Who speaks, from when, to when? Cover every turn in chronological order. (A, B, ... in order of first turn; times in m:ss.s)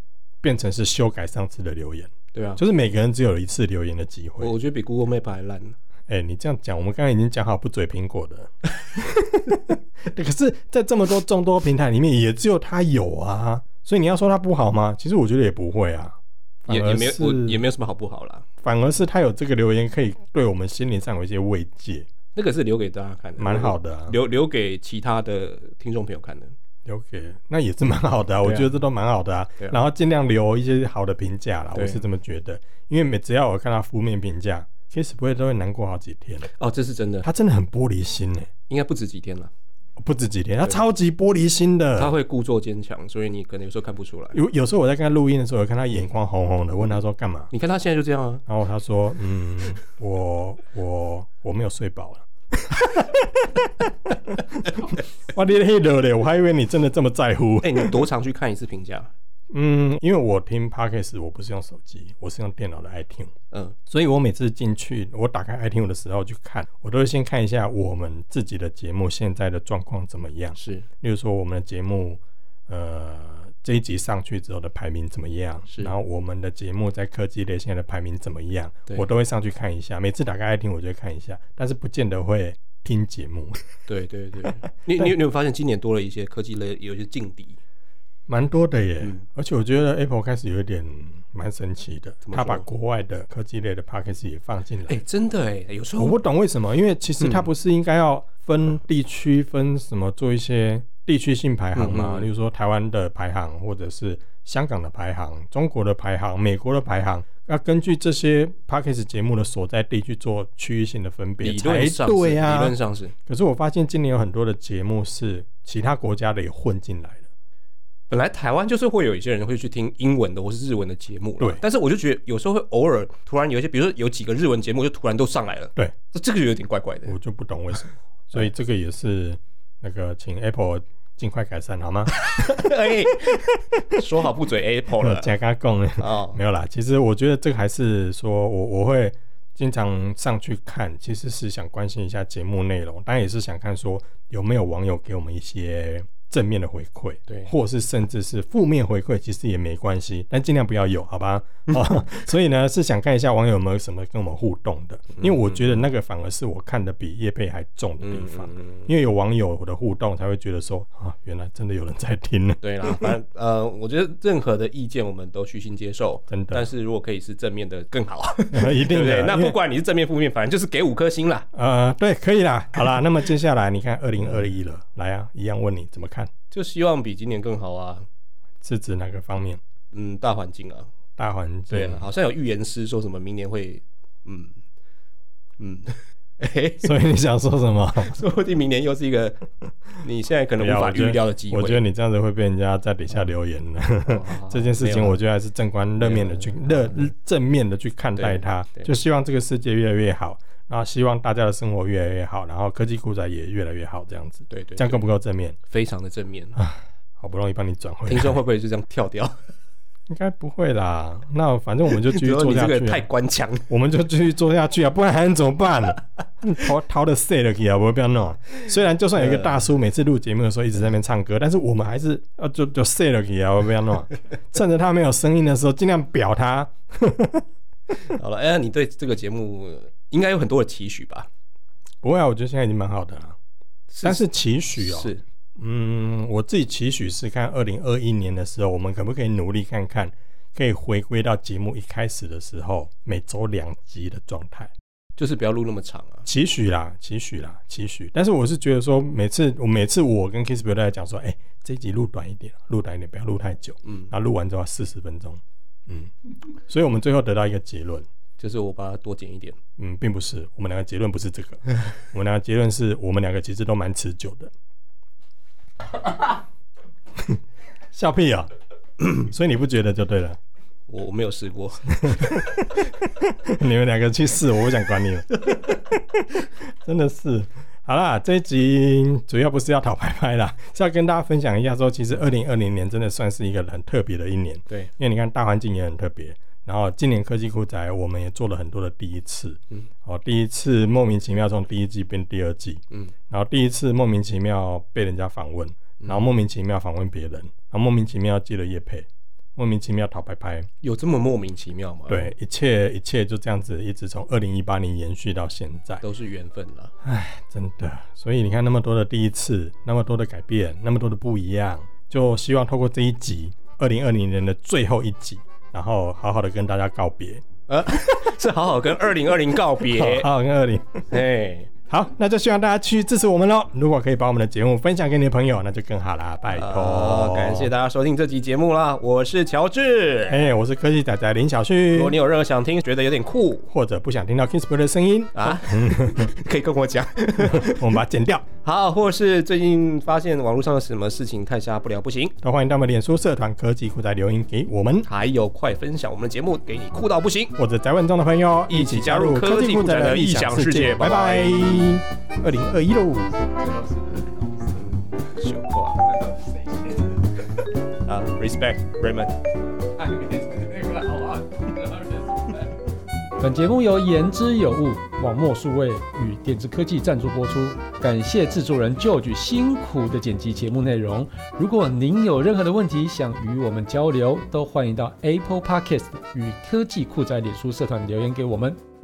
0:00.4-0:04.5 A
0:02.3-0:02.6 B
0:04.4-0:05.8 B
0:06.1-0:16.2 A
0:16.7-0:18.5 B
0:16.7-0:17.6 A
0:18.6-0:22.1 A
0:22.4-0:26.5 B
0:23.4-0:24.2 A
0:26.9-0:36.5 A
0:28.4-0:28.7 B
0:31.8-0:32.0 B
0:36.5-0:37.3 B
0:37.2-0:38.5 A
0:38.7-0:39.5 B
0:40.0-0:42.1 A
0:42.0-0:44.4 B
0:44.3-0:47.5 A
0:47.5-0:48.4 B
0:48.5-0:53.6 A
0:54.5-0:58.0 A
0:57.6-0:59.1 B
0:59.5-1:03.3 A
1:03.9-1:23.7 A
1:10.6-1:10.9 B
1:15.7-1:15.9 B
1:23.9-1:27.6 B
1:28.3-1:35.0 A
1:32.3-1:32.7 B
1:34.9-1:36.2 B
1:36.0-1:57.3 A
1:37.2-1:37.5 B
1:41.8-1:42.3 B
1:51.4-1:53.1 B
1:58.1-2:07.1 B
2:07.1-2:12.2 A
2:12.2-2:15.3 B
2:15.0-2:43.1 A
2:16.0-2:16.4 B
2:35.2-2:35.8 B
2:38.0-2:38.9 B
2:42.6-2:51.5 B
2:46.3-2:46.7 A
2:48.5-2:49.6 A
2:51.5-2:56.3 A
2:56.5-2:58.1 B
2:58.6-2:59.6 A
2:59.9-3:00.9 B
3:01.2-3:02.1 A
3:01.7-3:04.6 B
3:05.6-3:06.9 B
3:06.8-3:08.2 A
3:08.0-3:11.8 B
3:10.6-3:25.6 A
3:14.1-3:15.2 B
3:16.0-3:17.1 B
3:18.2-3:18.9 B
3:24.5-3:25.0 B
3:25.6-3:26.6 B
3:26.6-3:28.4 A
3:28.1-3:29.4 B
3:30.1-3:33.1 A
3:31.9-3:33.7 B
3:33.7-3:47.4 A
3:39.2-3:39.6 B
3:48.1-3:51.3 B
3:52.0-3:53.4 A
3:53.9-3:54.2 B
3:54.0-4:04.7 A
3:54.8-3:55.2 B
4:05.2-4:06.3 B
4:06.3-4:16.1 A
4:13.9-4:14.1 B
4:16.7-4:18.1 A
4:18.4-4:19.6 B
4:19.8-4:24.5 A
4:27.9-4:28.5 A
4:29.0-4:30.4 A
4:30.9-4:32.4 B
4:32.0-5:00.7 A
5:00.8-5:02.3 B
5:02.1-5:06.0 A
5:06.0-5:06.9 B
5:07.0-5:17.4 A
5:17.7-5:20.3 B
5:19.9-5:21.1 A
5:21.1-5:21.7 B
5:21.9-5:27.7 A
5:26.5-5:30.5 B
5:30.3-5:32.2 A
5:31.9-5:33.7 B
5:33.7-5:36.3 A
5:35.4-5:37.8 B
5:37.4-5:38.5 A
5:38.6-5:42.4 B
5:42.4-5:45.1 A
5:45.1-5:47.6 B
5:47.6-5:53.4 A
5:48.7-5:52.0 B
5:53.6-5:54.9 C
5:54.8-5:56.0 B
5:56.0-5:57.3 C
5:58.0-5:59.4 B
6:00.0-6:02.7 C
6:03.4-6:18.8 D